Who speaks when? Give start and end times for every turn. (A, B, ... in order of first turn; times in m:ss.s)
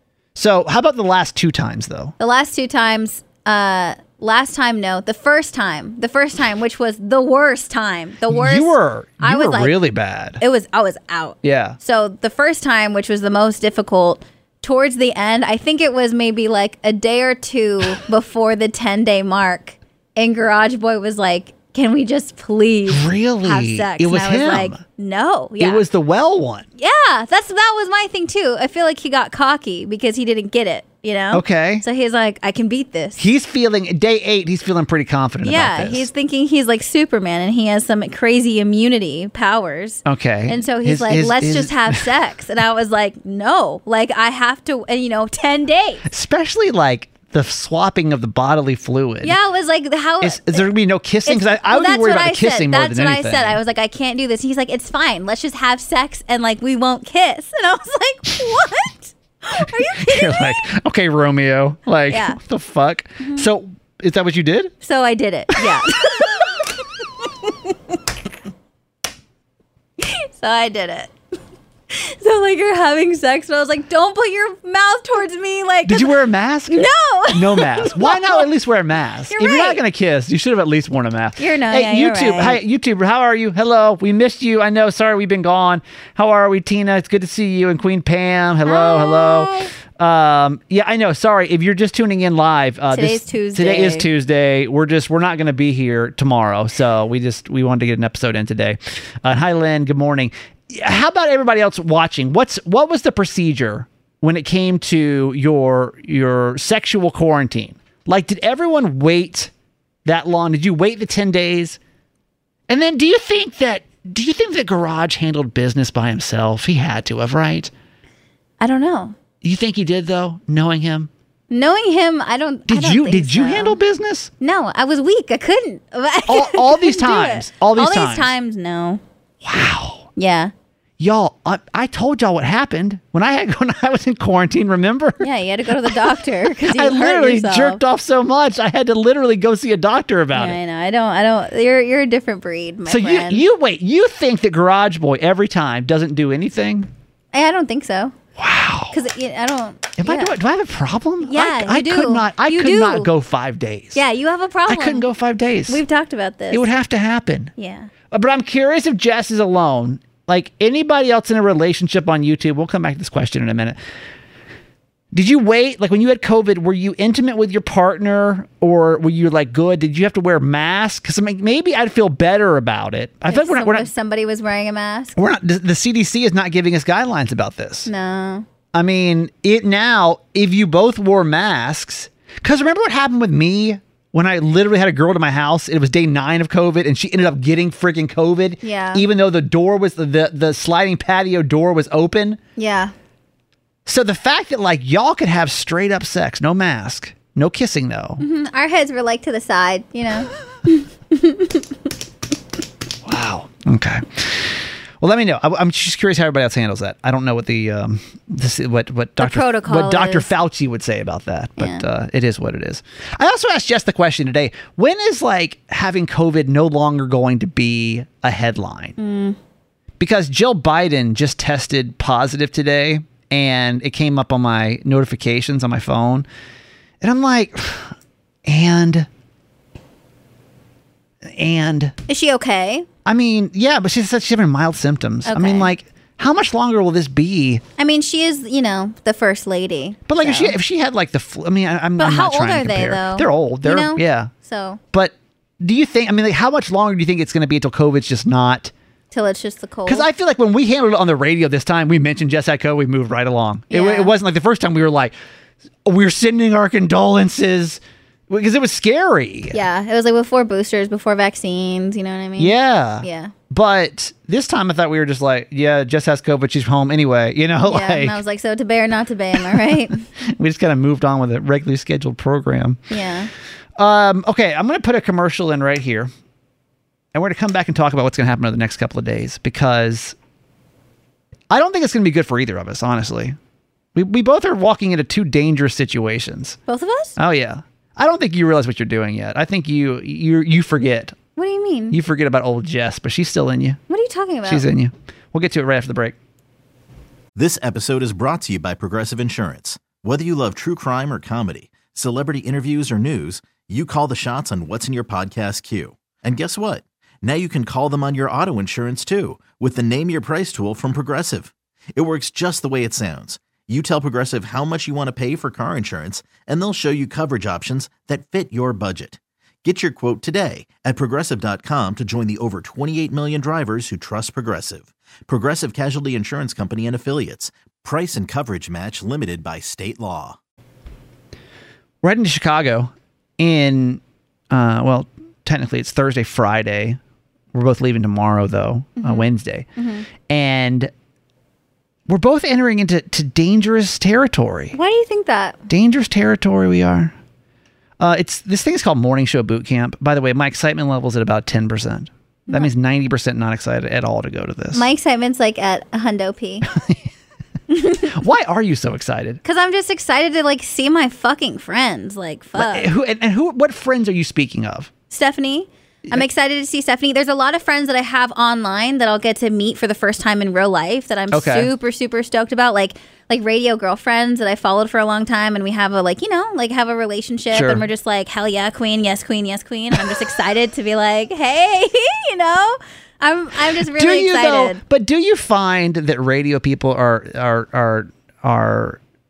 0:00.3-0:02.1 A
0:02.2-0:09.8 B
0:08.3-0:10.4 A
0:10.4-0:25.8 B
0:11.4-0:11.8 A
0:22.9-0:24.8 A
0:25.6-0:26.7 A
0:26.8-0:33.2 B
0:31.3-0:31.8 A
0:33.2-0:36.1 A
0:35.4-0:46.0 B
0:40.0-0:42.0 A
0:46.0-0:49.4 A
0:49.2-0:50.7 B
0:50.2-0:53.6 A
0:51.2-1:00.6 B
0:59.6-1:04.7 A
1:02.1-1:02.4 B
1:03.2-1:03.5 B
1:04.8-1:07.7 B
1:05.6-1:06.4 A
1:10.0-1:11.1 B
1:11.9-1:16.2 B
1:15.8-1:49.5 A
1:16.7-1:18.4 B
1:19.3-1:19.8 B
1:21.4-1:22.6 B
1:28.6-1:29.7 B
1:32.9-1:34.1 B
1:50.0-1:51.8 A
1:52.7-1:57.7 A
1:58.6-1:59.1 B
1:59.4-2:01.1 A
2:01.5-2:03.8 B
2:02.7-2:04.3 A
2:04.4-2:09.0 B
2:06.3-2:08.3 A
2:09.4-2:10.1 A
2:10.2-2:10.5 B
2:11.0-2:15.3 A
2:15.2-2:17.8 B
2:15.8-2:20.6 A
2:20.3-2:23.4 B
2:22.9-2:26.9 A
2:27.3-2:28.2 B
2:28.4-2:29.0 A
2:28.9-2:30.4 B
2:30.0-2:34.0 A
2:31.2-2:33.1 B
2:33.9-2:35.0 B
2:34.7-2:35.8 A
2:35.7-2:36.6 B
2:36.5-2:37.5 A
2:37.6-2:37.9 B
2:38.1-2:43.8 A
2:45.1-2:53.9 A
2:53.3-2:55.2 B
2:55.2-2:57.9 A
2:57.8-2:58.4 B
2:58.7-3:12.4 A
3:08.6-3:09.0 B
3:12.6-3:12.9 B
3:13.8-3:18.2 A
3:18.2-3:21.7 B
3:23.0-3:39.0 A
3:29.2-3:30.3 B
3:31.6-3:31.8 B
3:39.0-3:39.4 B
3:40.0-3:46.2 A
3:47.0-3:49.1 A
3:51.2-3:52.0 A
3:52.1-3:52.9 B
3:53.0-3:57.6 A
3:55.2-3:55.7 B
3:57.8-4:00.6 B
4:00.1-4:04.3 A
4:02.0-4:04.8 B
4:04.9-4:08.7 A
4:09.1-4:10.1 B
4:09.8-4:15.1 A
4:13.7-4:14.1 B
4:15.8-4:19.6 A
4:19.5-4:23.3 B
4:22.4-4:28.2 A
4:27.6-4:30.0 B
4:29.3-4:33.0 A
4:32.9-4:33.3 B
4:33.8-4:36.1 A
4:37.1-4:40.2 A
4:41.5-4:43.4 A
4:43.9-4:46.6 A
4:46.7-4:47.2 B
4:47.2-4:51.2 A
4:51.4-4:52.0 B
4:51.9-4:53.8 A
4:53.9-4:54.7 B
4:54.4-4:56.2 A
4:57.4-5:30.4 C
5:32.0-5:37.0 A
5:37.5-5:39.7 A
5:39.0-5:40.1 B
5:40.2-5:40.9 A
5:42.1-5:44.8 A
5:44.7-5:45.6 B
5:45.7-5:47.1 A
5:48.0-5:54.9 A
5:54.7-5:56.6 B
5:56.7-5:57.0 A
5:57.7-5:58.1 B
5:58.0-5:59.4 A
5:59.4-6:02.9 B
6:02.5-6:04.9 A
6:05.1-6:24.8 B
6:11.3-6:11.7 A
6:17.5-6:17.9 A
6:23.8-6:29.0 A